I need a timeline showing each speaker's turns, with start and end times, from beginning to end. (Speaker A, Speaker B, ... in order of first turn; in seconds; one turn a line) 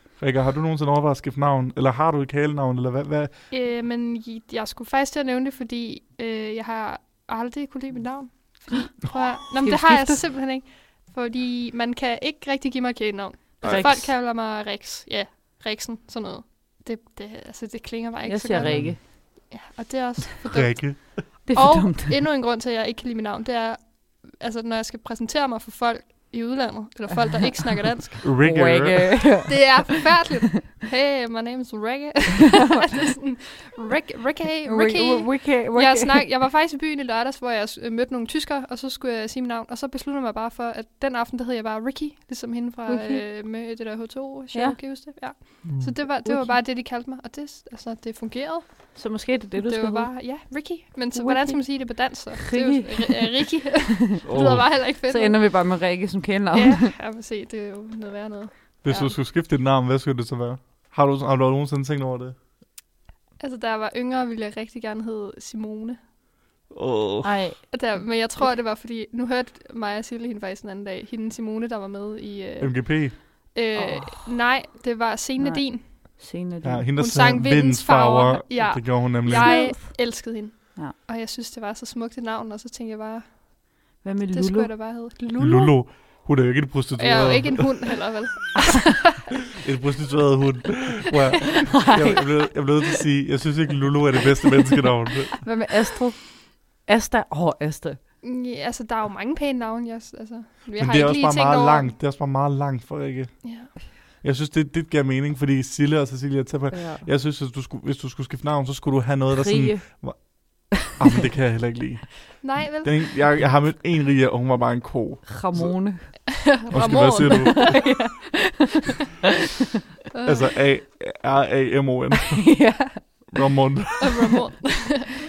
Speaker A: 0.2-3.4
Speaker B: 3.5-28.2
Speaker C: 9.1-10.3
Speaker A: 13.6-14.0
Speaker C: 13.6-14.1
Speaker C: 18.3-19.0
Speaker A: 18.6-19.0
Speaker A: 20.4-21.3
Speaker C: 21.5-22.2
Speaker C: 28.1-30.2
Speaker A: 28.2-29.5
Speaker B: 29.5-55.6
Speaker C: 34.7-36.3
Speaker C: 42.9-43.2
Speaker C: 44.5-44.8
Speaker A: 45.6-46.0
Speaker C: 46.2-46.6
Speaker C: 48.9-50.5
Speaker C: 51.1-56.9
Speaker A: 54.3-54.7
Speaker B: 56.5-59.1
Speaker A: 58.8-62.4
Speaker B: 63.4-66.0
Speaker A: 66.7-67.4
Speaker C: 67.2-67.7
Speaker B: 67.7-76.2
Speaker A: 72.6-73.2
Speaker C: 73.8-74.3
Speaker C: 75.4-76.9
Speaker A: 76.6-79.7
Speaker B: 77.0-83.8
Speaker C: 79.3-81.0
Speaker C: 84.0-84.7
Speaker B: 84.3-86.0
Speaker A: 85.4-88.0
Speaker B: 87.0-89.0
Speaker A: 89.5-95.5
Speaker C: 91.7-92.3
Speaker C: 95.4-98.0
Speaker B: 98.2-102.0
Speaker A: 100.8-118.0
Speaker B: 103.4-103.8
Speaker C: 106.7-107.1
Speaker C: 109.3-110.6
Speaker B: 112.4-113.3
Speaker C: 115.3-116.4
Speaker B: 116.5-117.9
Speaker C: 117.2-119.0
Speaker B: 120.1-120.5
Speaker A: 120.2-124.4
Speaker C: 122.3-123.3
Speaker B: 124.0-125.1